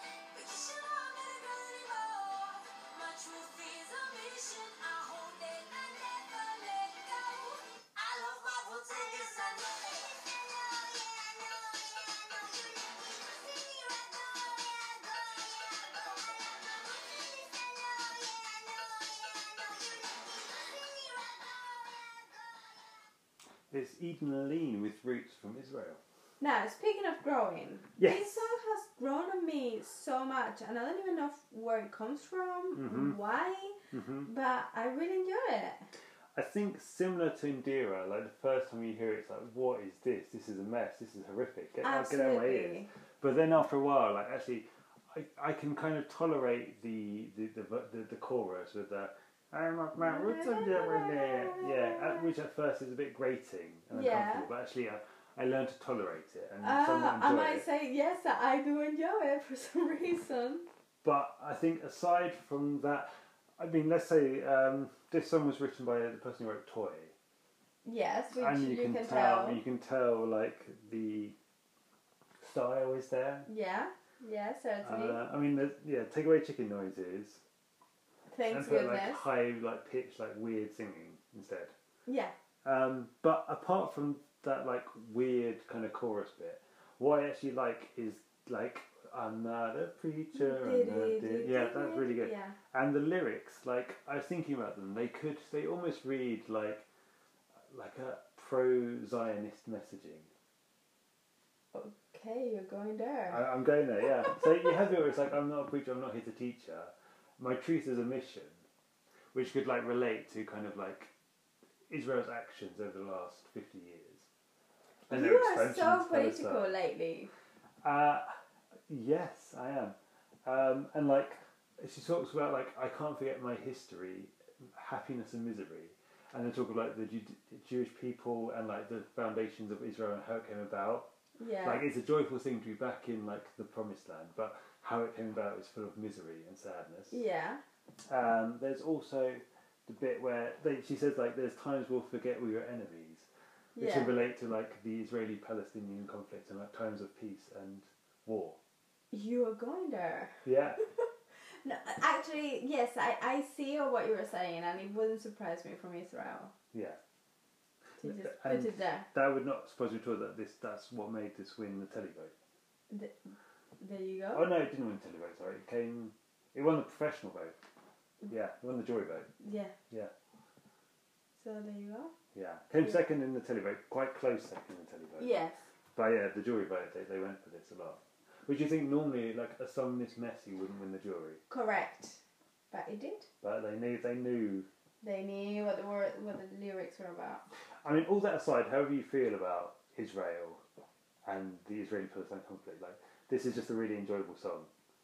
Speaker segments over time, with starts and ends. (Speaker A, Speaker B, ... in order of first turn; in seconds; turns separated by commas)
Speaker A: 0.3-10.4, Speaker A: 12.6-19.6, Speaker A: 20.6-21.8, Speaker B: 23.7-26.0, Speaker C: 26.4-35.9, Speaker B: 28.0-28.4, Speaker B: 32.8-33.2, Speaker B: 33.9-34.3, Speaker B: 36.3-57.6, Speaker C: 41.8-42.9, Speaker C: 50.0-52.3, Speaker C: 53.9-54.5, Speaker C: 56.6-60.7, Speaker B: 61.0-67.1, Speaker C: 67.8-69.6, Speaker B: 68.3-71.3, Speaker B: 72.4-73.5, Speaker C: 73.5-75.2, Speaker B: 74.8-77.4, Speaker C: 78.3-79.2, Speaker B: 78.5-81.7, Speaker C: 82.0-82.3, Speaker B: 82.6-96.8, Speaker C: 90.3-92.5, Speaker B: 97.7-100.3, Speaker C: 101.7-103.4, Speaker B: 103.3-108.6, Speaker B: 109.3-111.1, Speaker B: 111.9-114.2, Speaker B: 115.1-116.7, Speaker C: 115.1-117.3, Speaker B: 117.8-118.4, Speaker B: 118.9-131.1, Speaker C: 131.4-131.8, Speaker B: 131.6-137.2, Speaker C: 137.1-137.6, Speaker B: 138.1-143.2, Speaker C: 143.8-144.1, Speaker B: 143.8-148.6, Speaker C: 149.1-156.5, Speaker B: 150.4-150.8, Speaker B: 156.7-157.0, Speaker C: 158.0-159.1, Speaker B: 158.0-162.3, Speaker C: 162.9-164.5, Speaker B: 164.3-167.6, Speaker B: 168.3-169.3, Speaker C: 169.4-169.7, Speaker C: 171.4-172.1, Speaker B: 172.3-175.3, Speaker C: 175.2-175.7, Speaker B: 175.9-181.4, Speaker C: 181.5-183.3, Speaker B: 183.4-184.7, Speaker C: 185.0-187.4, Speaker B: 187.8-190.6, Speaker B: 191.2-194.7